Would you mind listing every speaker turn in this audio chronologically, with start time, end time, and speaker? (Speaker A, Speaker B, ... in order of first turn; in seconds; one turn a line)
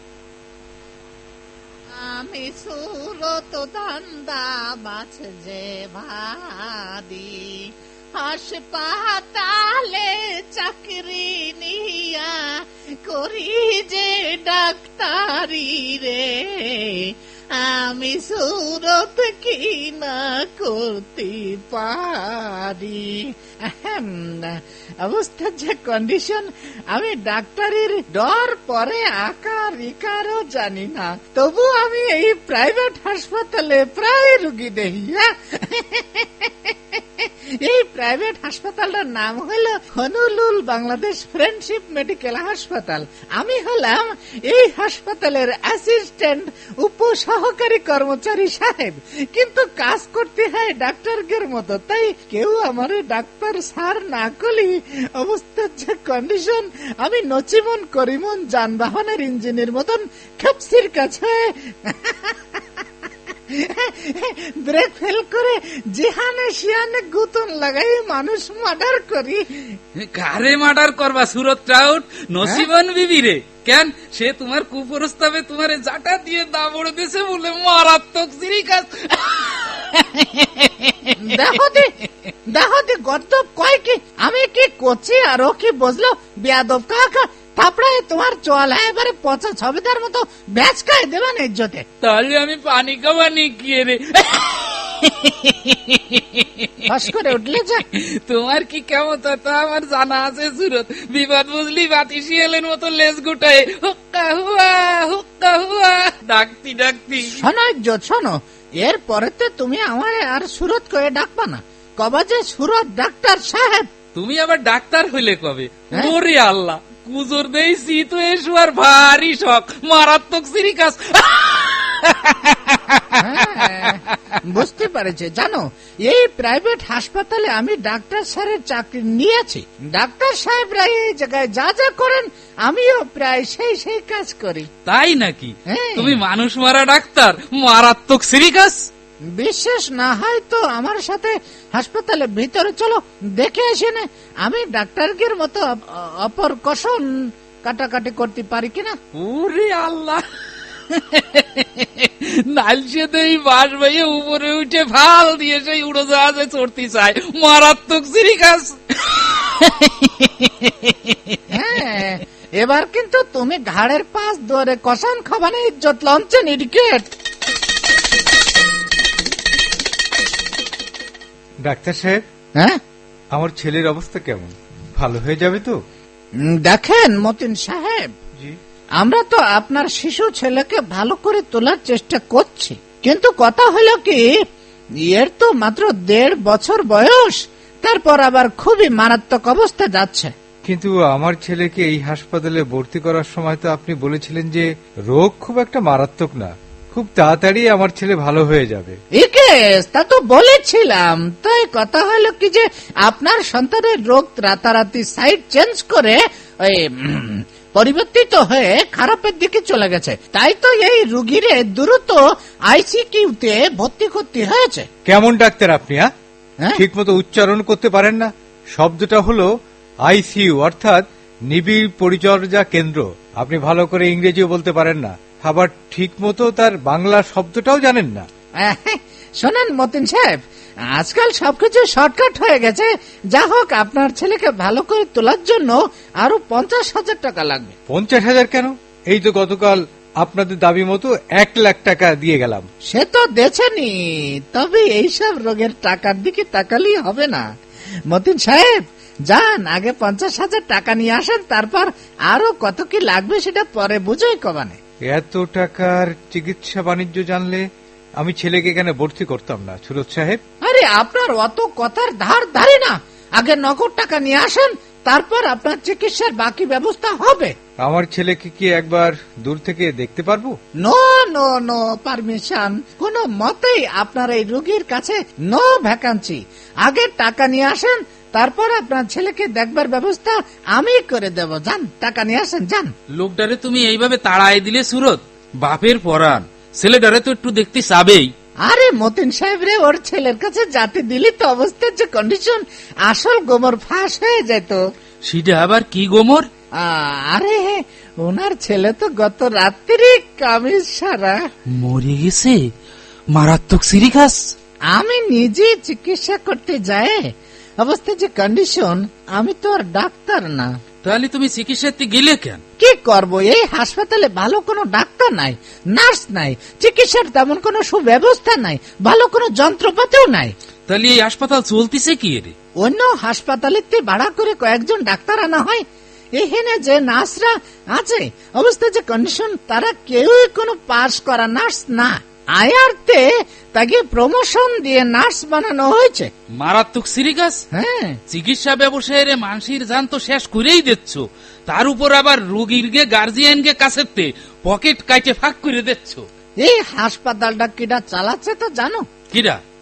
Speaker A: 1.9-62.6
Speaker A: 63.5-69.7
Speaker B: 70.0-81.6
Speaker A: 81.2-81.9
Speaker A: 82.5-91.8
Speaker B: 92.0-96.7
Speaker A: 96.9-97.8
Speaker B: 98.0-107.3
Speaker A: 107.3-113.9
Speaker B: 114.2-124.1
Speaker A: 123.2-134.7
Speaker B: 134.9-138.8
Speaker A: 135.7-136.2
Speaker A: 139.3-149.0
Speaker B: 149.2-150.2
Speaker B: 150.9-161.4
Speaker A: 161.5-167.1
Speaker C: 171.6-172.2
Speaker C: 173.3-175.8
Speaker A: 176.4-178.1
Speaker A: 179.0-184.2
Speaker A: 185.0-190.3
Speaker C: 190.6-199.0
Speaker A: 199.2-214.9
Speaker C: 215.1-216.1
Speaker C: 216.7-219.5
Speaker C: 220.0-228.3
Speaker A: 228.6-230.4
Speaker A: 230.9-237.7
Speaker C: 237.9-242.7
Speaker A: 242.9-243.9
Speaker A: 244.5-247.4
Speaker A: 248.1-254.8
Speaker C: 255.1-257.6
Speaker C: 258.2-260.4
Speaker A: 260.6-267.5
Speaker C: 267.8-270.6
Speaker A: 270.8-282.9
Speaker B: 283.2-288.3
Speaker A: 288.6-294.8
Speaker B: 295.3-296.5
Speaker A: 296.8-301.4
Speaker B: 301.7-302.6
Speaker B: 303.3-304.5
Speaker A: 304.9-310.7
Speaker B: 311.0-312.6
Speaker A: 312.8-320.5
Speaker B: 320.9-322.5
Speaker A: 322.8-325.8
Speaker A: 326.4-336.3
Speaker B: 336.6-337.6
Speaker A: 337.7-338.2
Speaker B: 338.3-346.3
Speaker A: 346.6-349.1
Speaker B: 349.3-349.6